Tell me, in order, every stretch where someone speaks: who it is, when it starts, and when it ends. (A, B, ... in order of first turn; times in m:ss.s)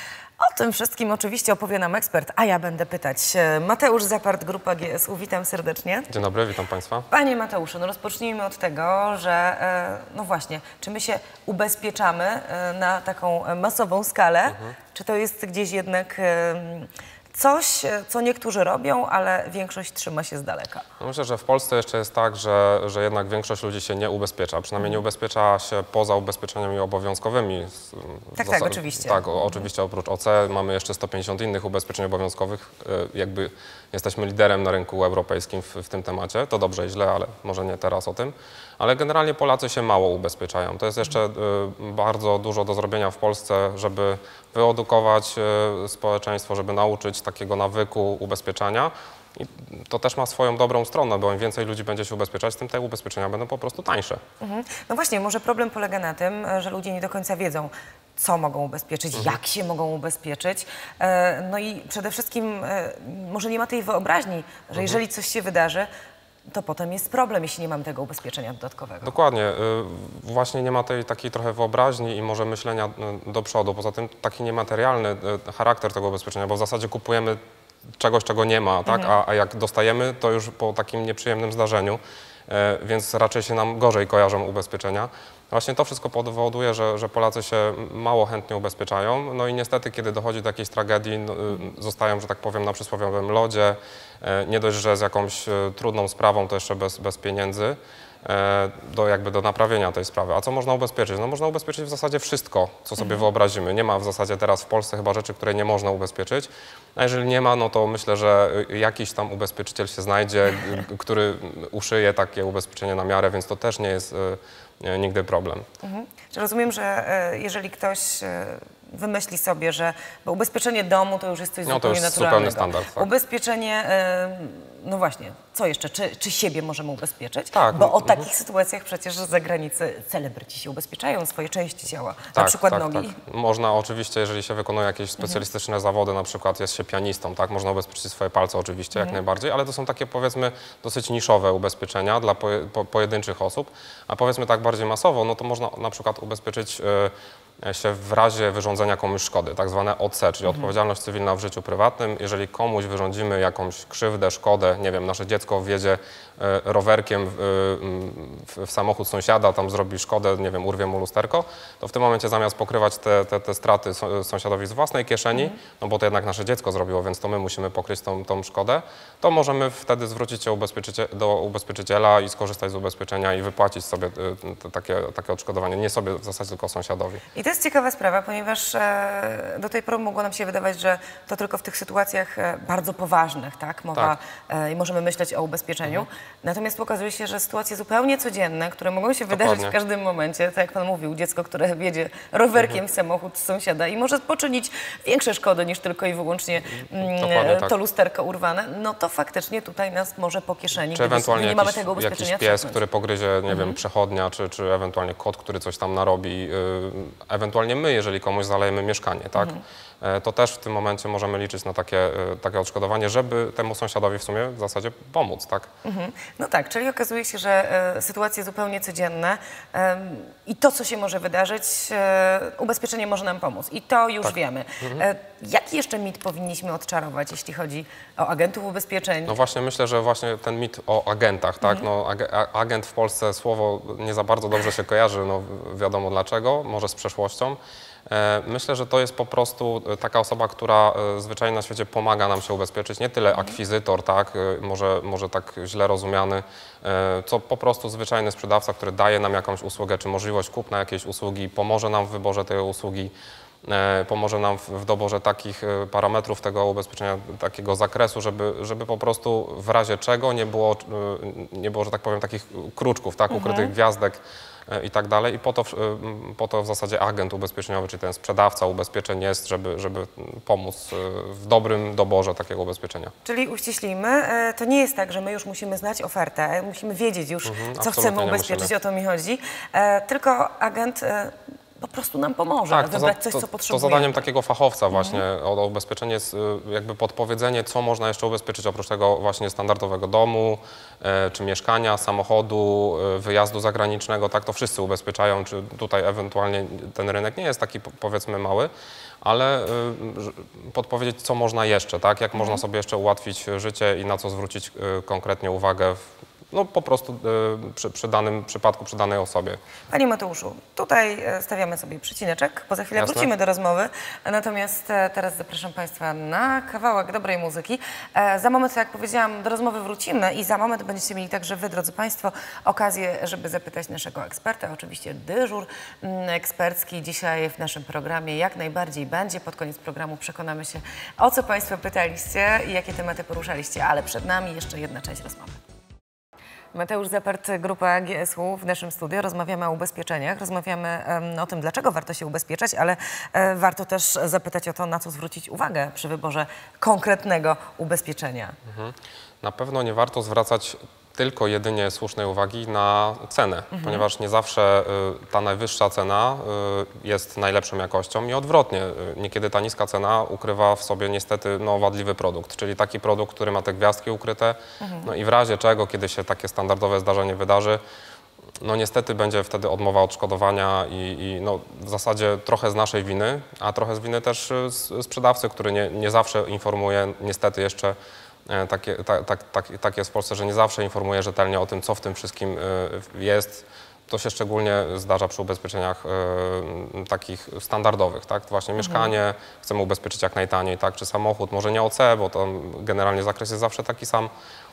0:00.4-0:06.1 A
0:06.1-0:07.1 B
0:07.1-0:20.8 A
0:14.5-0:14.8 B
0:21.0-0:54.2 B
0:28.4-0:29.6 A
0:54.4-1:05.9 A
1:06.5-1:09.1 A
1:09.0-1:17.4 B
1:18.0-1:55.6 B
1:18.9-1:19.1 A
1:55.8-2:13.2 A
2:01.6-2:03.1 B
2:07.5-2:08.2 B
2:12.3-2:57.2 B
2:57.3-3:22.8 A
3:09.3-3:09.8 B
3:16.9-3:17.7 B
3:20.9-3:35.7 B
3:23.5-3:23.8 A
3:29.4-3:29.6 A
3:35.8-3:49.4 A
3:49.2-4:13.1 B
4:13.6-4:33.1 B
4:23.3-4:23.7 A
4:33.2-4:44.2 A
4:37.4-4:38.7 B
4:42.7-4:58.7 B
4:44.9-4:45.2 A
4:59.2-5:06.0 B
5:02.3-5:02.6 A
5:06.5-5:09.6 B
5:09.9-5:35.6 A
5:13.0-5:13.3 B
5:36.7-5:48.6 A
5:48.7-6:07.8 B
5:53.7-5:54.0 A
6:04.8-6:05.1 A
6:08.6-6:18.0 B
6:18.5-6:34.3 B
6:28.8-6:29.1 A